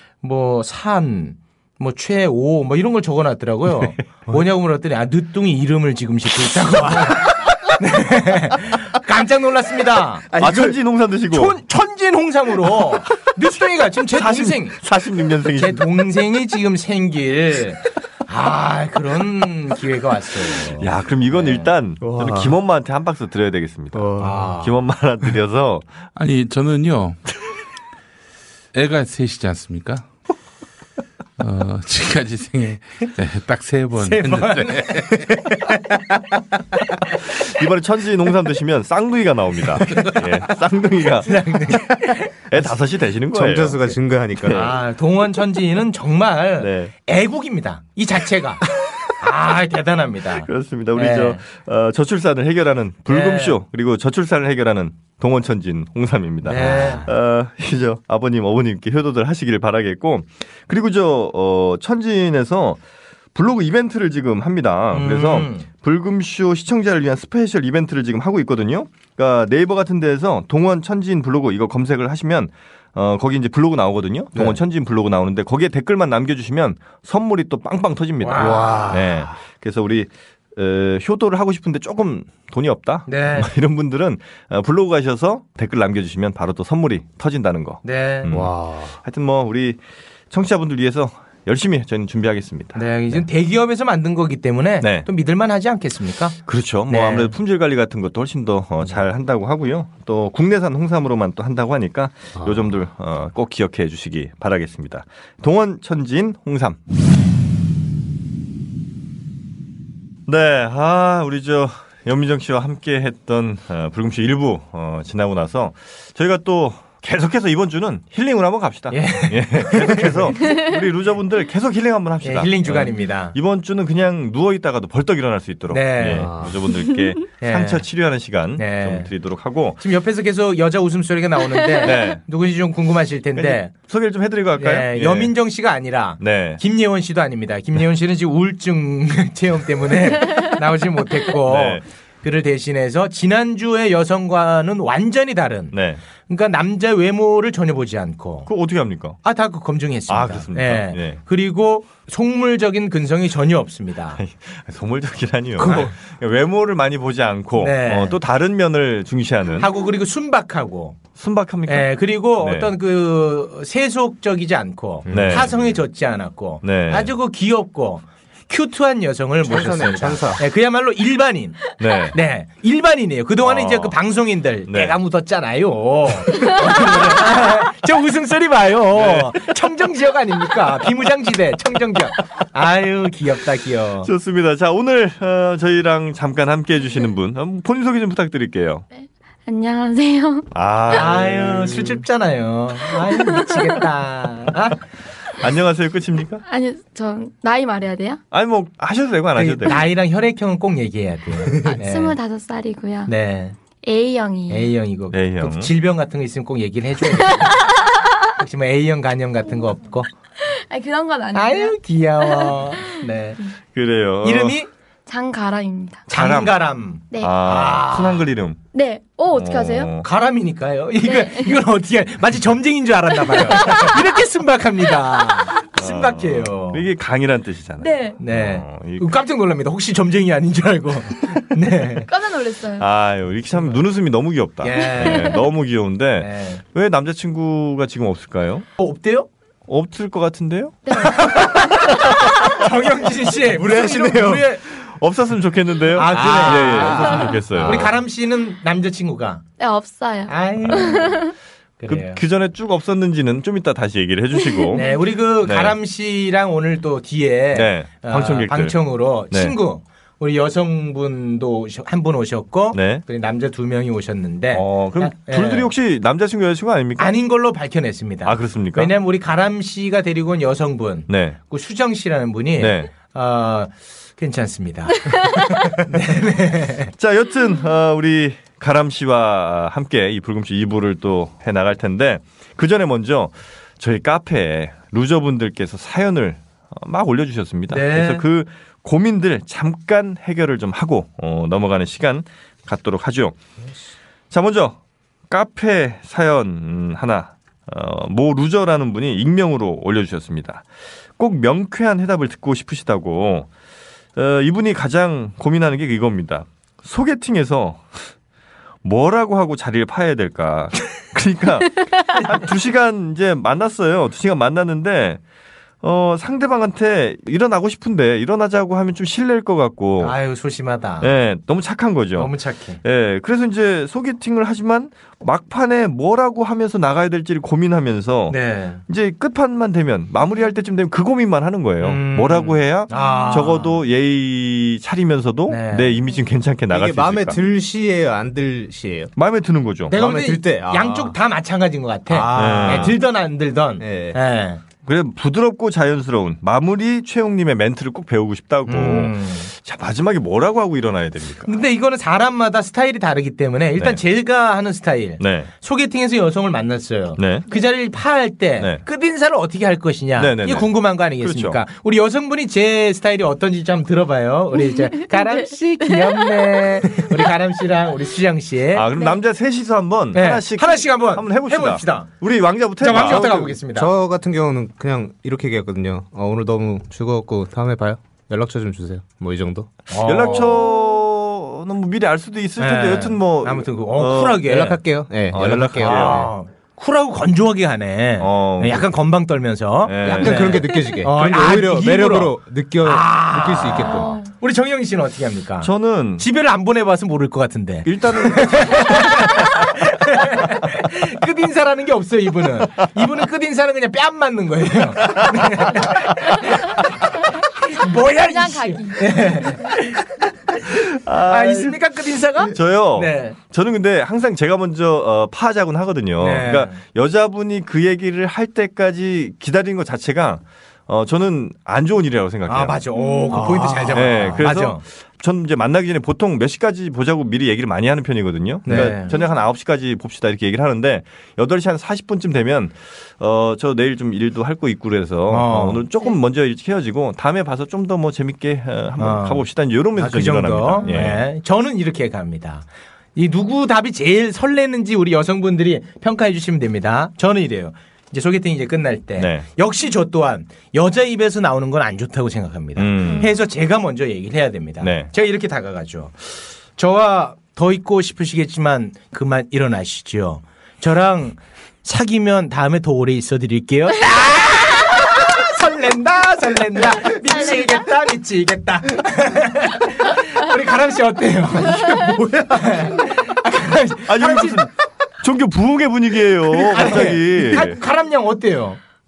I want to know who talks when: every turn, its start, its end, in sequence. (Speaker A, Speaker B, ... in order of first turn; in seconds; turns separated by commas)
Speaker A: 0.2-10.3, Speaker B: 10.3-10.8, Speaker C: 10.4-11.6, Speaker A: 11.3-14.7, Speaker C: 14.2-15.8, Speaker A: 15.6-21.7, Speaker C: 20.8-25.9, Speaker B: 22.0-22.6, Speaker B: 23.9-24.6, Speaker A: 24.2-24.7, Speaker D: 26.1-27.2, Speaker D: 28.7-30.1, Speaker D: 31.4-35.2, Speaker A: 34.0-34.9, Speaker B: 35.0-36.1, Speaker C: 37.1-44.8, Speaker A: 41.2-41.9, Speaker B: 43.3-44.8, Speaker A: 44.5-51.4, Speaker C: 46.6-46.9, Speaker C: 50.4-62.8, Speaker A: 53.1-53.5, Speaker A: 56.4-57.1, Speaker B: 56.6-57.0, Speaker C: 63.3-89.8, Speaker A: 64.9-65.7, Speaker B: 74.3-74.6, Speaker A: 78.2-78.9, Speaker B: 78.4-79.3, Speaker A: 83.1-83.5, Speaker A: 87.8-88.3, Speaker B: 88.3-89.0, Speaker C: 90.3-93.2, Speaker A: 92.7-96.3, Speaker C: 94.8-95.1, Speaker C: 96.4-106.8, Speaker A: 96.9-97.3, Speaker C: 110.2-129.8, Speaker A: 118.9-120.3, Speaker A: 122.2-123.3, Speaker A: 125.7-126.3, Speaker B: 126.0-126.6, Speaker A: 127.4-127.8, Speaker A: 128.6-129.1, Speaker A: 129.8-133.7, Speaker C: 131.8-132.2, Speaker C: 133.3-135.3, Speaker A: 134.6-145.8, Speaker C: 136.2-136.6, Speaker C: 141.4-141.8, Speaker C: 145.7-146.0, Speaker A: 146.3-148.5, Speaker C: 148.4-149.2, Speaker A: 149.2-154.2, Speaker C: 150.1-151.2, Speaker C: 154.2-159.7, Speaker A: 155.6-155.9, Speaker A: 157.6-158.2, Speaker A: 159.6-161.0, Speaker C: 161.2-162.7, Speaker A: 161.7-184.1, Speaker B: 165.1-165.5, Speaker C: 165.1-165.7, Speaker C: 166.6-167.1, Speaker B: 169.4-170.4, Speaker C: 171.8-172.2, Speaker C: 173.4-173.9, Speaker C: 174.7-174.9, Speaker C: 176.7-177.2, Speaker C: 178.9-179.4, Speaker C: 184.0-188.8, Speaker E: 189.4-190.5, Speaker C: 190.5-192.0, Speaker A: 190.9-194.8, Speaker C: 195.4-196.4, Speaker E: 196.4-198.2, Speaker C: 198.3-199.8, Speaker A: 199.3-202.1, Speaker E: 201.8-203.1, Speaker A: 203.1-203.6, Speaker E: 203.8-204.7, Speaker A: 204.5-207.6, Speaker C: 205.1-205.7, Speaker A: 208.3-210.1, Speaker E: 210.4-212.6, Speaker A: 211.3-213.4, Speaker C: 213.7-214.6, Speaker A: 214.2-214.7, Speaker E: 215.1-216.0, Speaker C: 216.1-216.6, Speaker A: 216.1-218.2, Speaker E: 217.1-217.4, Speaker C: 217.2-218.6, Speaker E: 218.7-219.9, Speaker C: 219.3-220.0, Speaker A: 220.0-226.8, Speaker E: 221.0-221.6, Speaker E: 223.5-223.8, Speaker C: 225.8-229.1, Speaker E: 227.8-228.2, Speaker A: 228.2-232.1, Speaker E: 232.1-232.9, Speaker C: 232.8-238.7, Speaker A: 234.6-235.4, Speaker E: 235.0-235.3, Speaker A: 236.2-236.6, Speaker A: 238.8-239.3, Speaker C: 239.7-240.8, Speaker E: 240.9-241.8, Speaker A: 241.0-244.6, Speaker B: 243.3-244.4, Speaker C: 244.7-247.9, Speaker A: 245.9-249.4, Speaker B: 246.1-247.9, Speaker E: 249.6-251.3, Speaker A: 250.3-251.2, Speaker C: 250.6-250.9, Speaker A: 251.8-252.2, Speaker C: 251.9-254.9, Speaker E: 254.5-254.9, Speaker A: 254.7-265.7, Speaker C: 255.4-255.8, Speaker C: 257.5-258.8, Speaker C: 259.3-259.6, Speaker C: 262.7-263.0, Speaker C: 264.5-267.1, Speaker A: 267.0-276.9, Speaker C: 268.2-268.9, Speaker C: 271.1-271.4, Speaker C: 272.6-272.9, Speaker C: 277.0-293.4, Speaker A: 287.7-288.2, Speaker C: 294.3-294.8, Speaker C: 295.3-300.6, Speaker C: 301.2-303.5, Speaker C: 304.1-307.8, Speaker C: 308.8-315.2, Speaker C: 315.8-320.1, Speaker A: 320.0-321.1, Speaker C: 321.0-337.4, Speaker A: 322.2-322.8, Speaker A: 328.3-328.8, Speaker A: 331.8-333.8, Speaker A: 335.5-336.0, Speaker B: 336.7-339.1, Speaker C: 339.1-339.9, Speaker A: 339.9-344.6, Speaker B: 339.9-341.1, Speaker B: 342.1-343.0, Speaker C: 342.3-343.0, Speaker B: 343.8-344.2, Speaker C: 344.9-351.5, Speaker A: 348.7-349.5, Speaker A: 351.4-368.8, Speaker C: 355.2-355.5, Speaker C: 357.2-357.5, Speaker C: 360.2-361.6, Speaker E: 364.6-366.6, Speaker C: 368.7-373.5, Speaker A: 370.1-372.1, Speaker A: 372.8-373.9, Speaker B: 372.9-379.7, Speaker A: 379.9-380.6, Speaker C: 380.0-384.5, Speaker A: 382.6-384.8, Speaker B: 384.4-386.3, Speaker C: 385.3-386.3, Speaker A: 385.4-407.1, Speaker C: 388.2-388.9, Speaker C: 389.9-390.6, Speaker B: 390.0-394.2, Speaker E: 393.9-394.3, Speaker C: 395.6-396.3, Speaker C: 397.8-399.3, Speaker A: 407.6-410.1, Speaker E: 408.1-409.7, Speaker C: 410.7-411.8, Speaker A: 411.3-413.4, Speaker C: 412.5-422.8, Speaker A: 416.2-416.8, Speaker A: 422.5-424.8, Speaker E: 422.9-423.4, Speaker C: 423.9-441.2, Speaker A: 428.6-429.1, Speaker A: 435.3-435.8, Speaker A: 439.0-439.4, Speaker A: 439.9-474.6, Speaker C: 449.2-449.4, Speaker C: 452.8-453.3, Speaker C: 454.8-455.1, Speaker E: 467.3-467.7, Speaker B: 471.7-473.0, Speaker C: 474.1-477.8, Speaker A: 476.5-478.8